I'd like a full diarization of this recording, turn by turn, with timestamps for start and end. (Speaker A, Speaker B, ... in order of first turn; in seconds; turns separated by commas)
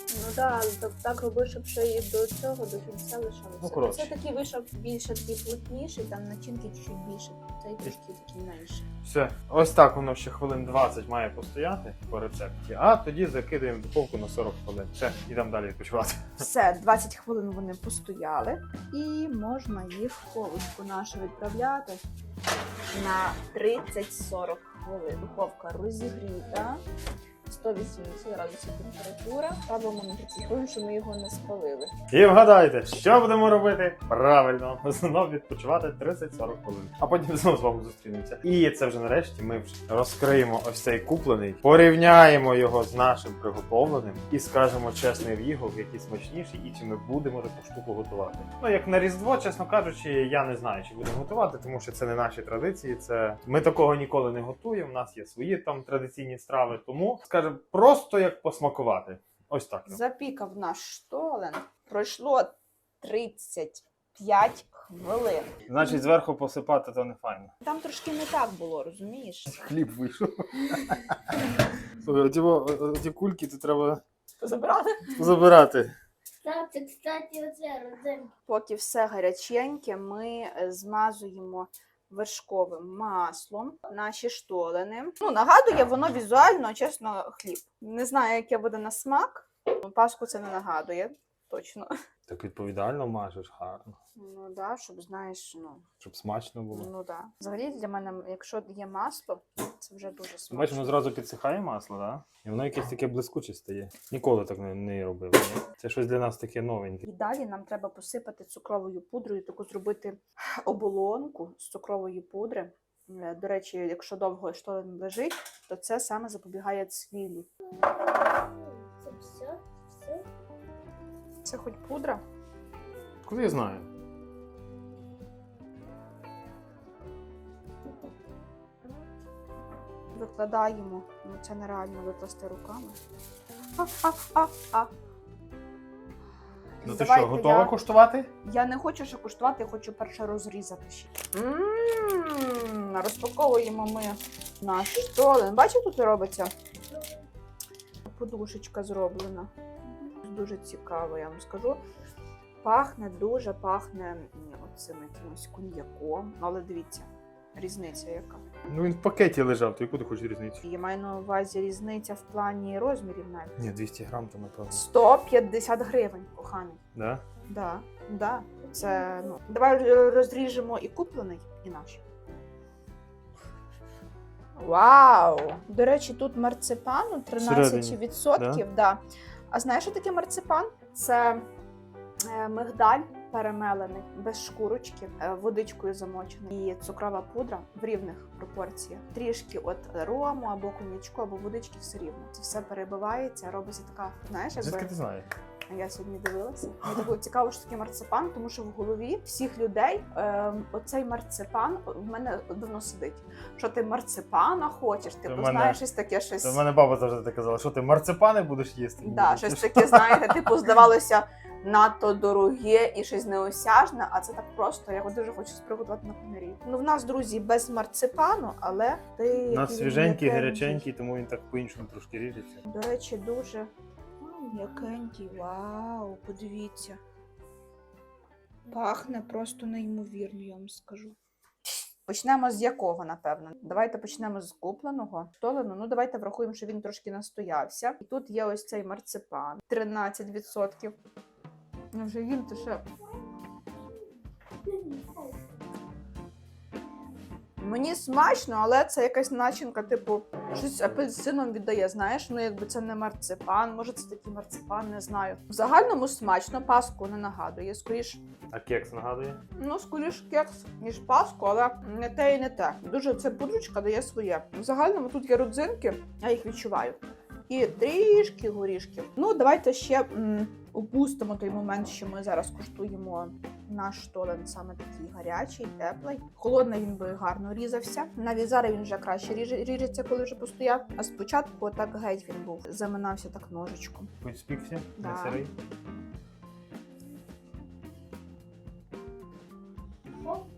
Speaker A: 0.1-8.8, Speaker B: 3.6-4.1, Speaker B: 9.0-16.4, Speaker A: 16.4-22.0, Speaker A: 22.9-26.8, Speaker A: 27.4-31.9, Speaker B: 32.1-60.0, Speaker A: 59.9-65.6, Speaker B: 65.7-67.5, Speaker A: 67.6-69.6, Speaker B: 69.5-71.5, Speaker B: 72.0-74.0, Speaker A: 74.4-75.2, Speaker B: 75.2-75.9, Speaker C: 76.4-78.3, Speaker A: 78.5-91.9, Speaker B: 92.3-94.0, Speaker A: 94.1-95.8, Speaker B: 96.0-96.9, Speaker A: 96.7-101.0, Speaker B: 100.5-107.0, Speaker A: 107.0-117.5, Speaker C: 118.3-120.2, Speaker A: 121.4-122.2, Speaker B: 123.2-123.9, Speaker A: 130.1-133.0, Speaker A: 133.8-134.9, Speaker A: 136.8-137.7, Speaker B: 136.8-138.3, Speaker A: 138.4-146.5, Speaker A: 148.1-149.5, Speaker A: 150.0-151.8, Speaker A: 152.6-158.4, Speaker B: 158.7-160.6, Speaker A: 160.6-163.6, Speaker B: 163.6-164.8, Speaker A: 164.7-166.8, Speaker B: 166.9-167.2, Speaker A: 167.5-172.0, Speaker A: 174.6-181.4, Speaker B: 177.4-178.6, Speaker A: 182.2-194.9, Speaker B: 194.6-195.3, Speaker A: 195.7-206.6, Speaker B: 205.2-205.8, Speaker B: 206.4-210.5, Speaker A: 209.0-220.8, Speaker B: 219.5-222.6, Speaker A: 222.7-227.0, Speaker A: 228.7-231.2, Speaker A: 232.0-240.9, Speaker A: 241.9-242.8, Speaker C: 244.7-245.4, Speaker A: 247.6-258.2, Speaker B: 258.5-259.4, Speaker A: 259.6-284.1, Speaker B: 284.2-285.5, Speaker A: 285.0-285.4, Speaker C: 290.1-290.5